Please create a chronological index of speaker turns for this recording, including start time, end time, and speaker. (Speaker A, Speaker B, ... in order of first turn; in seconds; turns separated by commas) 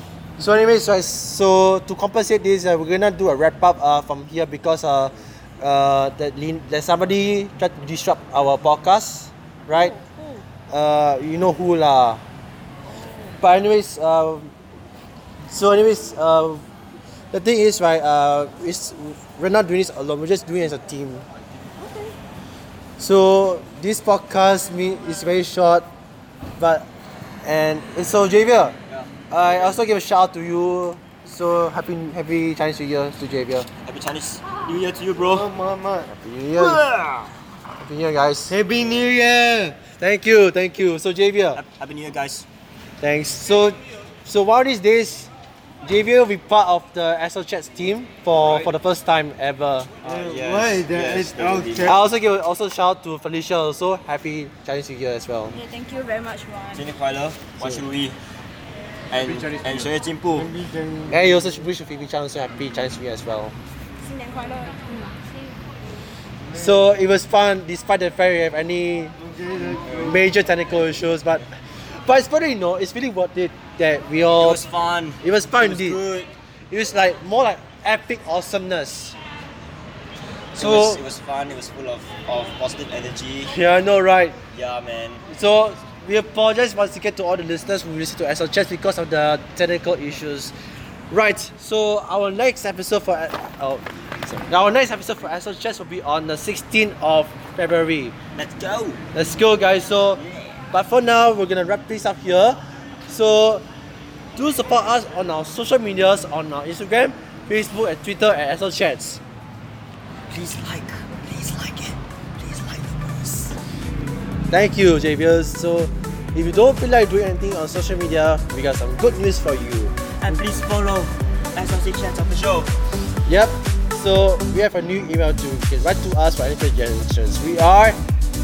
Speaker A: 0.4-10.0, Speaker B: 9.7-10.4, Speaker A: 10.7-12.2, Speaker B: 12.9-13.3, Speaker A: 13.4-14.5, Speaker A: 15.5-16.6, Speaker A: 17.3-21.2, Speaker B: 21.8-22.1, Speaker A: 23.0-25.9, Speaker A: 26.6-26.9, Speaker A: 27.4-28.8, Speaker C: 28.9-29.8, Speaker A: 29.3-33.7, Speaker C: 33.8-35.5, Speaker A: 35.3-36.8, Speaker C: 36.5-37.3, Speaker A: 37.8-41.6, Speaker C: 38.5-39.0, Speaker C: 41.5-42.5, Speaker A: 43.0-45.3, Speaker A: 45.8-49.9, Speaker C: 50.0-52.0, Speaker A: 51.6-55.6, Speaker B: 55.7-56.6, Speaker C: 56.7-58.2, Speaker C: 59.1-60.5, Speaker A: 61.1-63.5, Speaker B: 64.1-64.9, Speaker A: 66.5-74.6, Speaker C: 74.3-76.3, Speaker A: 75.2-76.0, Speaker A: 76.7-79.2, Speaker C: 80.5-83.5, Speaker A: 80.5-81.0, Speaker A: 83.5-84.4, Speaker C: 84.5-85.2, Speaker A: 85.3-90.5, Speaker A: 91.1-98.1, Speaker C: 98.3-99.0, Speaker A: 99.1-100.2, Speaker A: 100.7-103.6, Speaker A: 104.3-109.2, Speaker C: 110.3-113.5, Speaker A: 114.5-119.9, Speaker C: 120.2-122.7, Speaker A: 123.2-128.0